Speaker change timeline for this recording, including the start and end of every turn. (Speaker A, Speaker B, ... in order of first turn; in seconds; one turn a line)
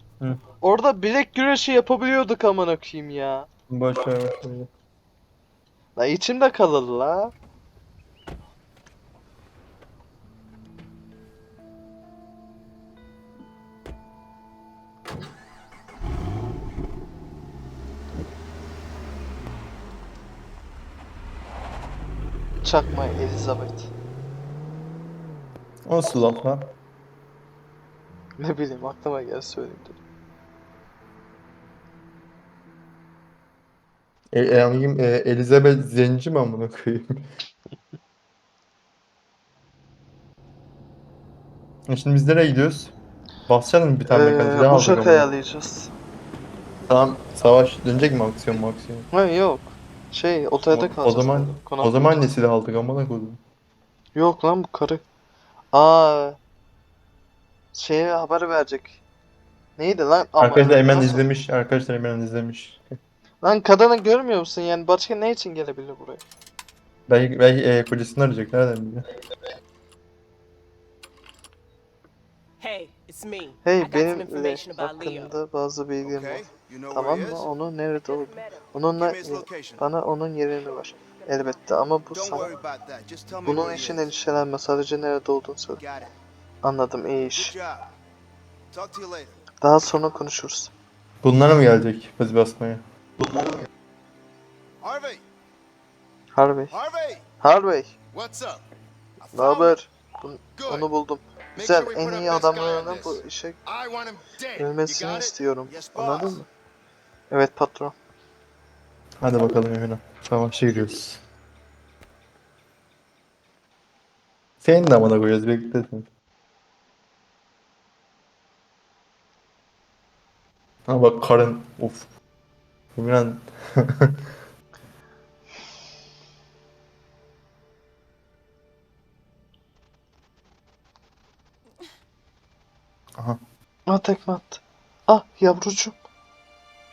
Speaker A: 0.6-3.5
Speaker B: 3.7-4.7
Speaker A: 6.0-7.3
Speaker A: 22.6-23.9
Speaker B: 25.8-26.7
Speaker A: 28.4-30.0
Speaker B: 34.3-37.2
Speaker B: 41.9-42.9
Speaker B: 43.5-45.3
Speaker A: 44.1-45.9
Speaker B: 46.9-49.1
Speaker A: 49.1-52.2
Speaker B: 50.7-53.4
Speaker A: 54.1-55.0
Speaker A: 55.7-56.4
Speaker A: 57.7-59.0
Speaker A: 59.8-61.2
Speaker B: 60.4-62.8
Speaker A: 63.4-66.2
Speaker B: 67.1-69.1
Speaker C: 72.6-75.3
Speaker A: 73.6-82.5
Speaker D: 76.0-77.5
Speaker C: 78.0-78.7
Speaker D: 79.0-79.8
Speaker D: 82.1-84.1
Speaker A: 83.4-85.8
Speaker D: 85.8-86.1
Speaker A: 86.6-87.5
Speaker D: 87.3-87.8
Speaker D: 88.7-89.4
Speaker A: 89.6-90.7
Speaker B: 91.2-93.4
Speaker D: 94.8-95.2
Speaker A: 96.3-96.7
Speaker D: 96.7-97.2
Speaker A: 97.4-97.9
Speaker D: 98.1-98.6
Speaker D: 99.2-99.8
Speaker A: 99.3-103.6
Speaker D: 100.5-100.9
Speaker D: 101.5-106.4
Speaker A: 104.5-106.5
Speaker A: 107.3-107.9
Speaker B: 109.2-111.2
Speaker B: 114.6-116.1
Speaker B: 120.9-122.0
Speaker B: 122.9-124.3
Speaker A: 133.9-135.9